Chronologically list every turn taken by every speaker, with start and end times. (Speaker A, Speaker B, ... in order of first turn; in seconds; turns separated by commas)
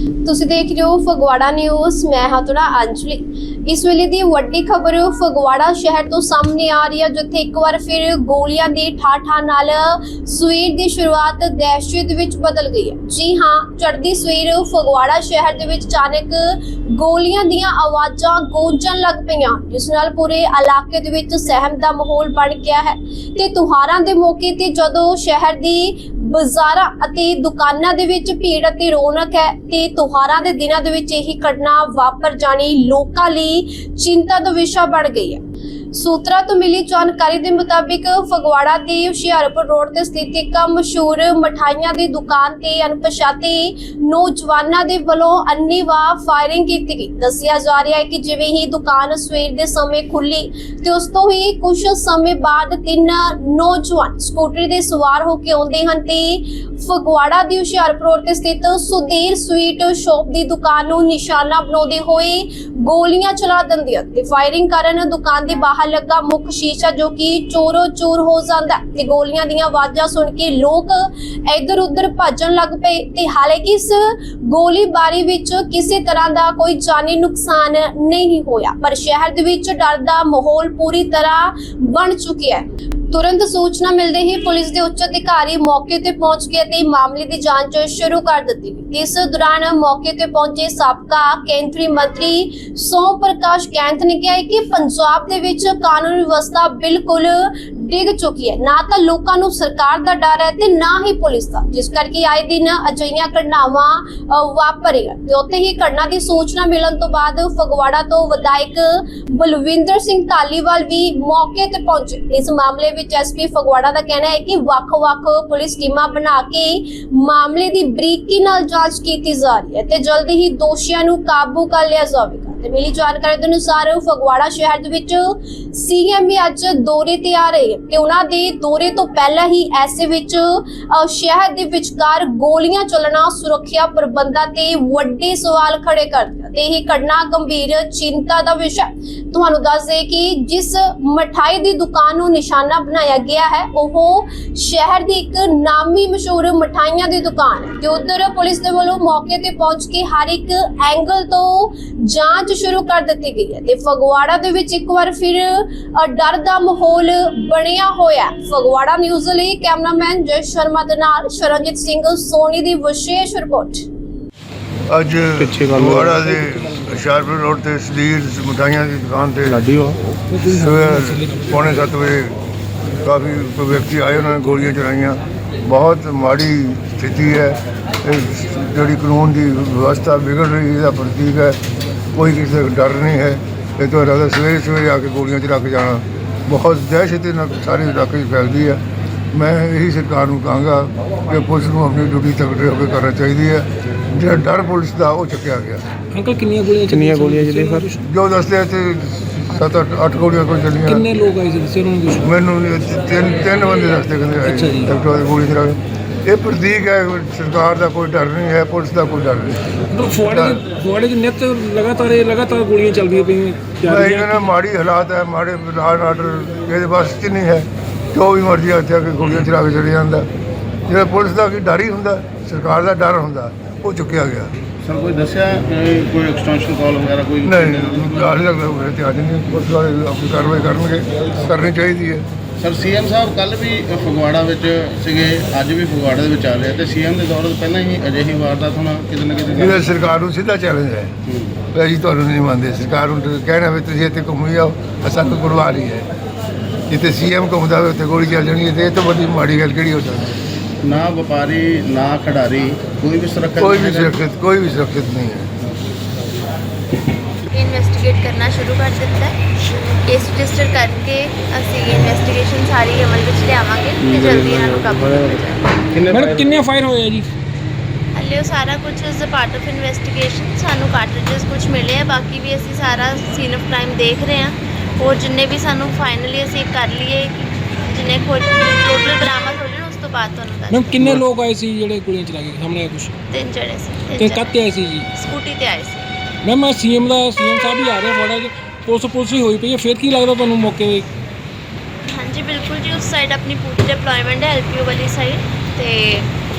Speaker A: 0.2-35.4, Speaker A: 35.9-163.8, Speaker B: 164.9-169.7, Speaker C: 165.4-166.1, Speaker C: 169.4-169.9, Speaker D: 170.3-171.8, Speaker B: 170.5-172.3, Speaker B: 173.0-181.6, Speaker B: 182.1-188.8, Speaker B: 189.3-195.8, Speaker D: 196.1-198.0, Speaker C: 196.9-197.9, Speaker B: 198.0-201.1, Speaker D: 200.8-202.3, Speaker B: 202.2-210.6, Speaker D: 204.4-204.9, Speaker D: 209.9-214.4, Speaker B: 213.8-220.3, Speaker B: 220.9-224.5, Speaker E: 224.8-228.3, Speaker B: 227.4-232.2, Speaker E: 232.6-239.8, Speaker B: 239.6-241.1, Speaker E: 241.3-241.6, Speaker B: 241.7-246.1, Speaker B: 246.9-250.4, Speaker E: 250.8-254.2, Speaker B: 253.6-255.5, Speaker F: 257.5-259.4, Speaker F: 260.1-265.7, Speaker C: 264.1-265.2, Speaker E: 265.9-266.6, Speaker D: 266.1-267.3, Speaker F: 268.1-281.2, Speaker D: 280.7-283.1, Speaker F: 283.3-284.5, Speaker D: 284.1-285.1, Speaker F: 285.1-286.1, Speaker D: 286.4-291.1, Speaker F: 292.1-296.3